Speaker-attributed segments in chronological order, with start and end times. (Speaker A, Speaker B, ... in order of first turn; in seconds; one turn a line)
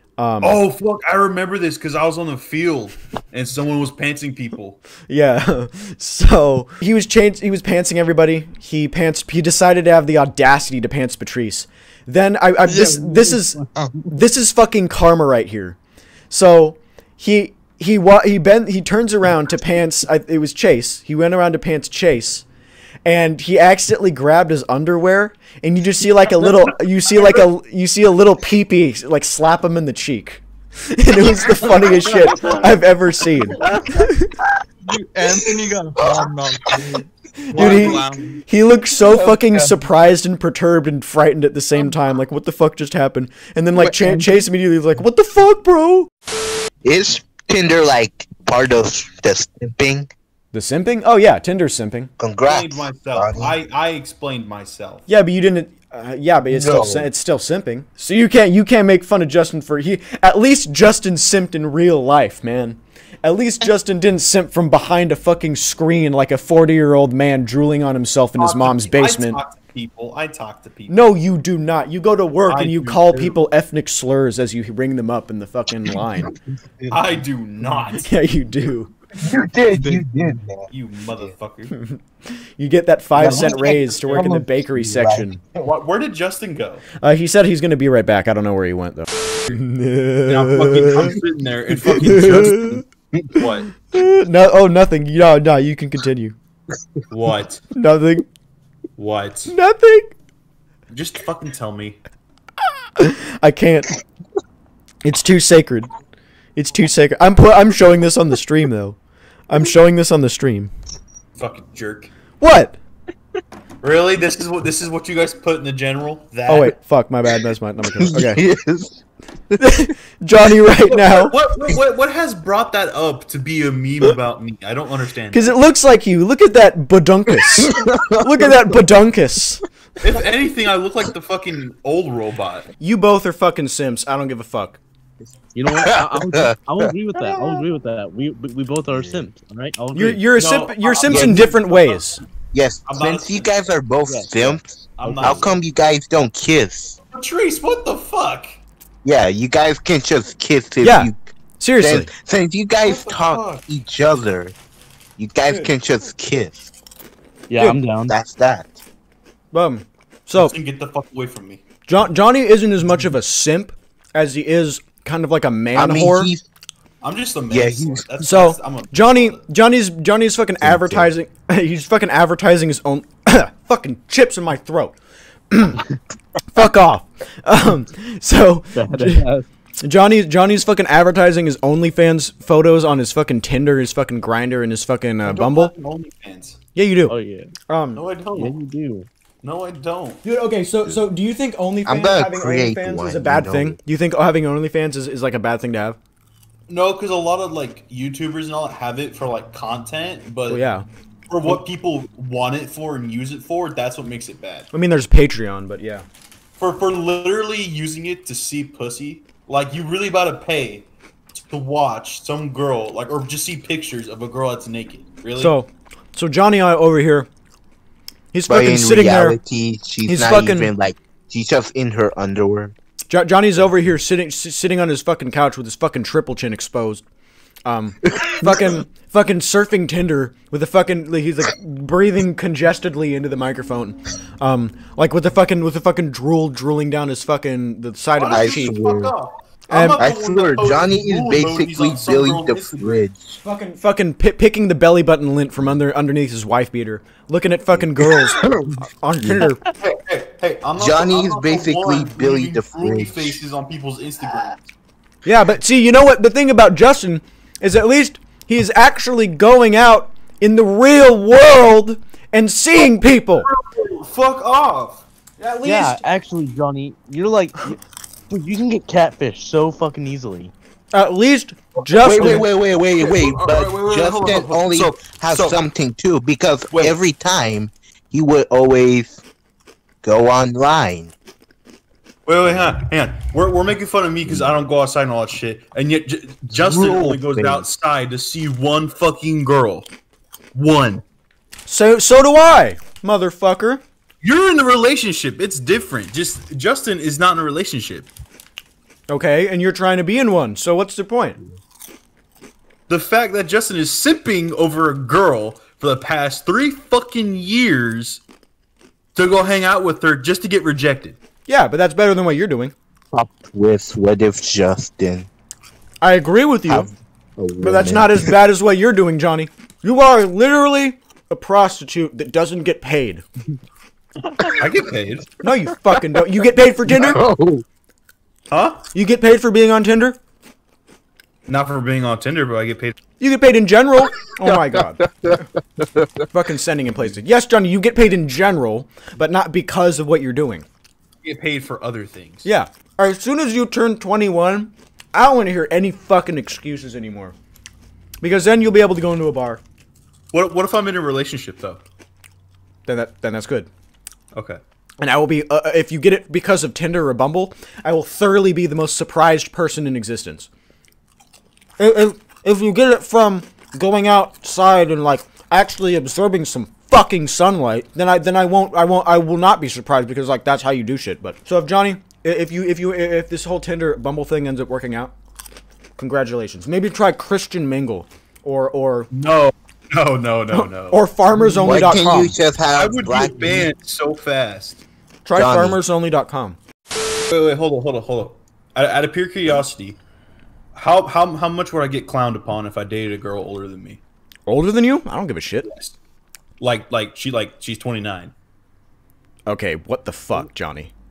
Speaker A: 0.2-0.6
Speaker B: 0.4-4.8
Speaker A: 5.1-15.8
Speaker C: 12.7-14.0
Speaker A: 16.3-22.4
Speaker A: 23.0-34.3
Speaker B: 31.7-32.8
Speaker C: 34.8-38.4
Speaker A: 37.5-46.1
Speaker B: 37.5-38.3
Speaker C: 39.0-39.7
Speaker C: 43.8-44.4
Speaker D: 46.8-50.1
Speaker A: 50.5-52.1
Speaker D: 52.2-53.5
Speaker B: 52.4-55.0
Speaker A: 55.1-69.4
Speaker D: 56.5-57.1
Speaker B: 68.4-71.0
Speaker A: 70.9-76.3
Speaker B: 72.5-73.4
Speaker B: 76.9-78.1
Speaker A: 78.0-78.9
Speaker D: 79.2-81.3
Speaker B: 80.7-81.7
Speaker A: 81.7-85.4
Speaker D: 83.1-85.6
Speaker B: 85.6-86.8
Speaker A: 87.0-91.1
Speaker B: 90.2-93.7
Speaker A: 92.0-92.8
Speaker A: 93.9-96.3
Speaker B: 97.1-97.6
Speaker A: 97.8-98.2
Speaker B: 99.0-99.5
Speaker A: 99.5-100.1
Speaker B: 100.9-102.0
Speaker A: 103.0-103.9
Speaker A: 105.0-105.9
Speaker A: 106.5-109.0
Speaker A: 109.5-110.7
Speaker B: 111.4-112.1
Speaker A: 112.4-112.8
Speaker B: 113.8-116.7
Speaker A: 116.5-118.4
Speaker D: 118.0-119.7
Speaker A: 119.6-121.3
Speaker B: 120.9-125.5
Speaker A: 125.3-129.6
Speaker D: 127.4-128.8
Speaker B: 130.0-132.7
Speaker A: 132.8-134.8
Speaker E: 135.6-140.2
Speaker D: 135.7-137.6
Speaker D: 138.9-139.2
Speaker A: 139.9-142.2
Speaker B: 140.3-142.1
Speaker D: 141.1-141.4
Speaker D: 142.5-144.7
Speaker B: 142.8-143.6
Speaker B: 144.3-145.6
Speaker D: 145.2-147.0
Speaker B: 147.1-148.6
Speaker D: 149.0-151.2
Speaker A: 150.8-152.1
Speaker D: 151.8-154.6
Speaker B: 152.8-153.6
Speaker D: 155.2-156.6
Speaker E: 157.5-158.1
Speaker D: 158.1-158.8
Speaker A: 159.5-160.6
Speaker B: 160.3-161.6
Speaker A: 161.9-166.3
Speaker D: 165.7-166.4
Speaker B: 167.0-169.4
Speaker D: 167.5-168.1
Speaker A: 168.2-175.0
Speaker D: 170.6-171.1
Speaker A: 175.5-175.8
Speaker A: 176.5-179.3
Speaker E: 178.8-179.3
Speaker A: 179.8-185.7
Speaker B: 185.2-186.6
Speaker A: 186.7-187.2
Speaker E: 187.1-187.5
Speaker A: 187.7-188.0
Speaker B: 187.9-188.6
Speaker E: 188.4-189.1
Speaker B: 189.4-190.2
Speaker A: 190.2-196.0
Speaker D: 191.8-193.8
Speaker B: 196.7-200.6
Speaker A: 200.5-200.8
Speaker B: 201.3-204.7
Speaker A: 204.7-206.1
Speaker B: 206.6-210.8
Speaker B: 211.4-215.5
Speaker A: 215.4-217.3
Speaker A: 218.3-219.4
Speaker D: 218.5-222.7
Speaker A: 220.1-220.7
Speaker A: 223.1-227.0
Speaker A: 227.6-238.7
Speaker B: 238.2-243.0
Speaker D: 238.3-239.1
Speaker A: 239.7-240.0
Speaker D: 239.9-243.4
Speaker A: 243.4-248.4
Speaker D: 247.7-249.5
Speaker A: 249.0-249.6
Speaker B: 249.8-254.6
Speaker D: 250.8-253.4
Speaker A: 255.2-263.5
Speaker B: 263.4-265.0
Speaker E: 265.6-267.6
Speaker A: 265.6-266.0
Speaker E: 268.3-270.5
Speaker A: 270.9-272.4
Speaker D: 272.0-279.2
Speaker B: 272.1-275.6
Speaker B: 276.7-277.0
Speaker D: 280.0-281.1
Speaker B: 282.3-289.9
Speaker B: 290.5-291.0
Speaker A: 291.7-293.8
Speaker B: 294.2-298.1
Speaker A: 299.1-301.4
Speaker B: 302.9-308.2
Speaker B: 309.1-311.1
Speaker A: 311.5-312.7
Speaker D: 313.1-315.3
Speaker A: 316.0-316.9
Speaker D: 316.7-318.3
Speaker A: 317.6-323.2
Speaker B: 324.4-325.3
Speaker A: 325.4-327.2
Speaker B: 328.5-328.8
Speaker A: 328.9-330.2
Speaker B: 331.5-333.0
Speaker A: 333.2-335.4
Speaker A: 336.3-340.6
Speaker B: 341.2-342.4
Speaker A: 342.4-347.3
Speaker A: 348.2-349.6
Speaker B: 350.3-351.8
Speaker A: 352.9-353.7
Speaker B: 354.3-354.6
Speaker A: 355.0-360.5
Speaker A: 361.8-375.1
Speaker A: 376.0-379.1
Speaker B: 379.1-381.0
Speaker A: 380.9-382.4
Speaker D: 381.6-383.7
Speaker B: 382.7-384.8
Speaker A: 385.2-386.6
Speaker D: 385.4-385.8
Speaker B: 387.3-390.0
Speaker B: 390.7-394.0
Speaker A: 394.4-395.7
Speaker B: 395.6-395.9
Speaker B: 396.6-398.3
Speaker A: 399.5-400.9